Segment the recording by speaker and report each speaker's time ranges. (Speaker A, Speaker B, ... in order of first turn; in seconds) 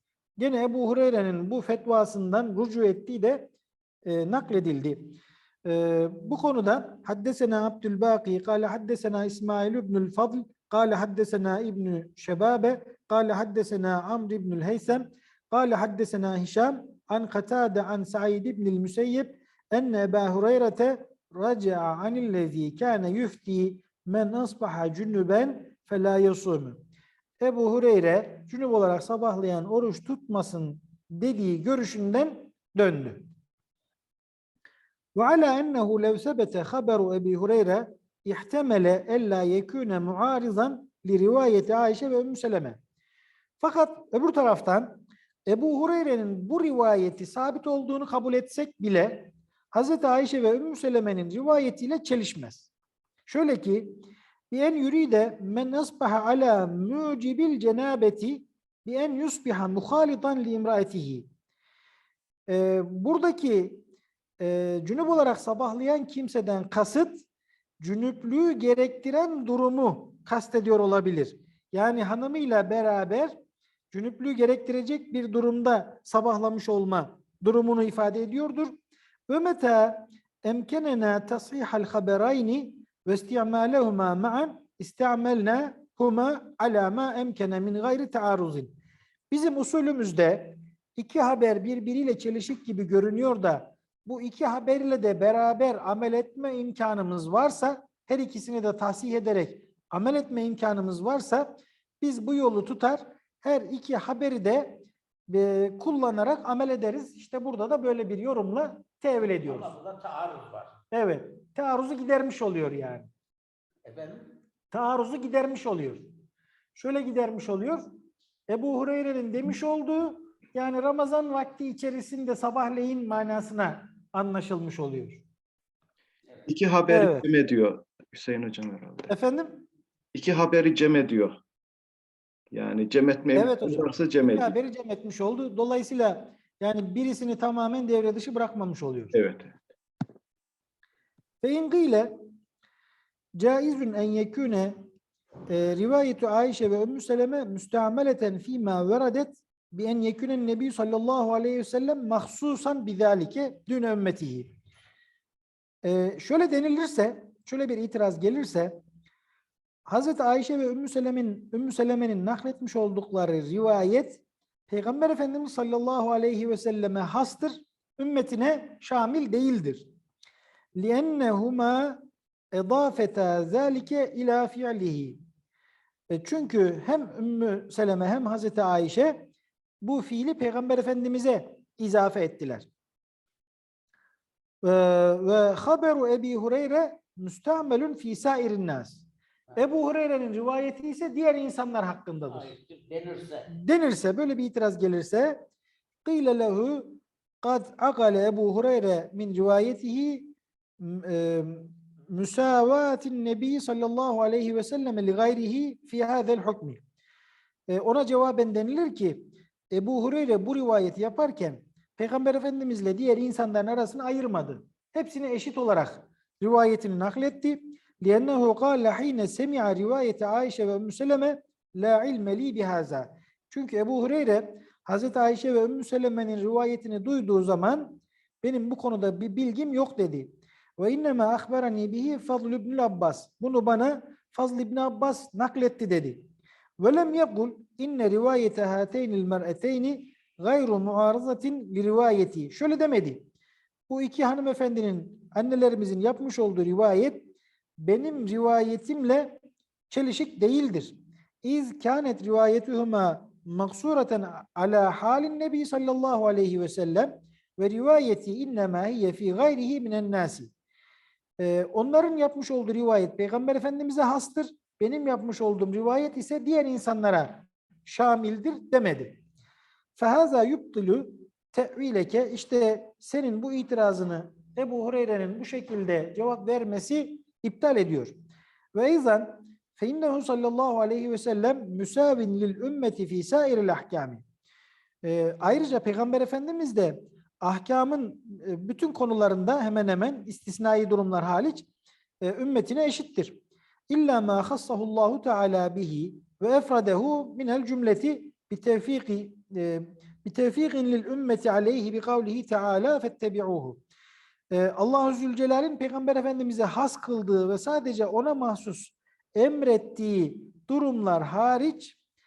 Speaker A: 0.4-3.5, 4.0-26.8, 27.4-33.3, 35.1-42.8, 43.6-52.7, 53.3-54.0, 54.5-61.3, 62.5-63.8, 64.4-67.2, 67.8-73.4, 73.9-78.7, 79.3-88.7, 89.3-109.7, 110.9-113.1, 114.7-116.1, 116.8-117.8, 118.5-125.2, 126.9-127.2, 129.1-129.7, 133.3-139.2, 141.4-142.1, 143.4-144.8, 145.5-154.5, 155.8-158.8, 159.9-169.9, 170.8-172.0, 172.5-175.2, 176.1-179.3, 179.8-182.7, 184.6-189.0, 189.6-192.5, 193.5-195.4, 196.0-206.8, 207.7-236.3, 236.8-243.2, 243.9-247.3, 247.8-260.5, 261.4-269.2, 270.0-278.1, 278.7-284.2, 285.0-291.6, 292.2-303.8, 304.5-311.9
Speaker B: 109.4-110.8, 113.8-114.2, 192.3-193.5
Speaker C: 126.5-129.1, 130.1-131.3, 132.5-134.5, 139.1-139.6